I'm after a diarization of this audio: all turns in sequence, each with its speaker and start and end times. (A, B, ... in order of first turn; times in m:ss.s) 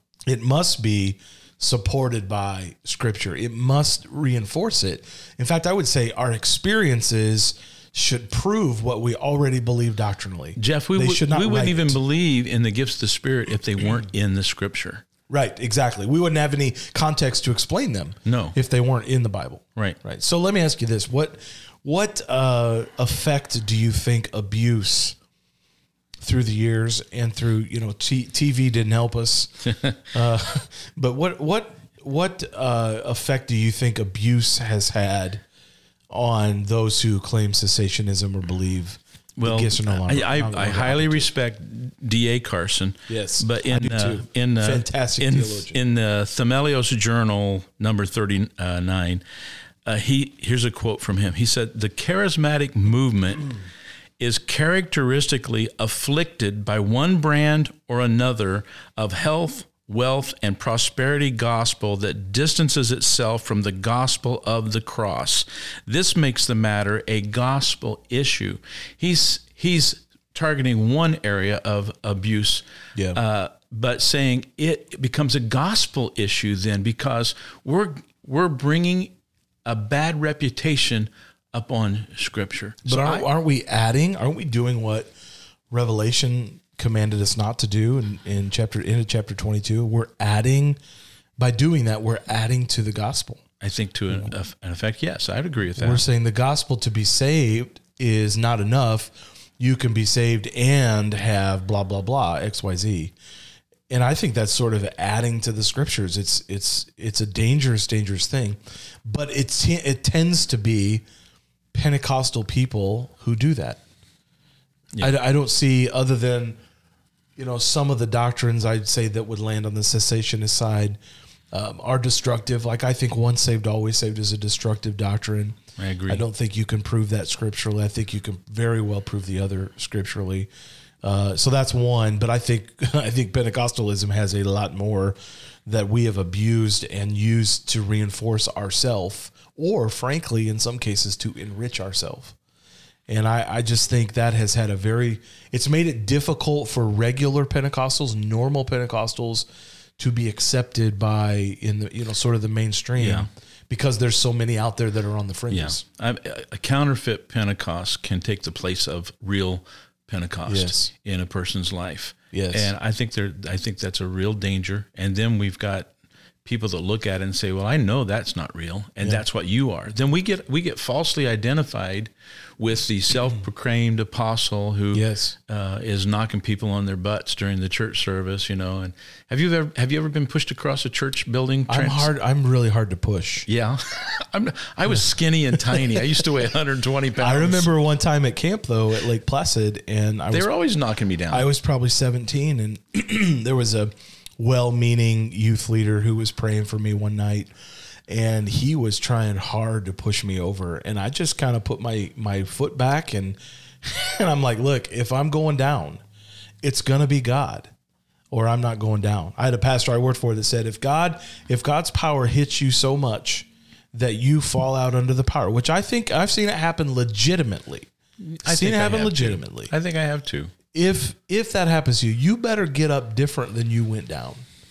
0:00.3-0:12.0 A
0:10.6-0:15.0 B
0:15.3-0:25.2 A
0:18.2-0:18.6 B
0:26.2-0:35.4 A
0:36.1-0:41.3 A
0:39.4-0:49.2 B
0:43.1-0:45.8 A
0:49.8-0:53.5 B
0:54.2-1:19.1 B
1:19.6-1:23.3 B
1:22.8-1:25.1 A
1:25.7-1:30.8 A
1:31.4-1:33.4 A
1:33.6-1:36.0 B
1:35.8-1:43.1 A
1:43.9-1:51.0 A
1:51.7-1:53.8 A
1:55.0-1:56.6 A
1:57.4-2:01.0 A
2:01.5-2:10.5 A
2:05.8-2:06.2 B
2:11.0-2:22.4 A
2:23.1-2:29.4 A
2:30.0-2:35.8 A
2:33.0-2:33.3 B
2:35.5-2:45.9 B
2:40.5-2:40.9 A
2:42.3-2:42.7 A
2:46.4-3:02.1 B
2:54.9-2:55.4 A
3:01.7-3:03.5 A
3:03.5-3:07.7 B
3:05.7-3:06.0 A
3:07.2-3:10.5 A
3:10.3-3:11.5 B
3:11.3-3:17.5 A
3:18.1-3:26.0 A
3:26.6-3:27.7 A
3:28.3-3:37.9 A
3:38.2-3:40.5 B
3:38.4-3:39.7 A
3:40.7-3:44.4 A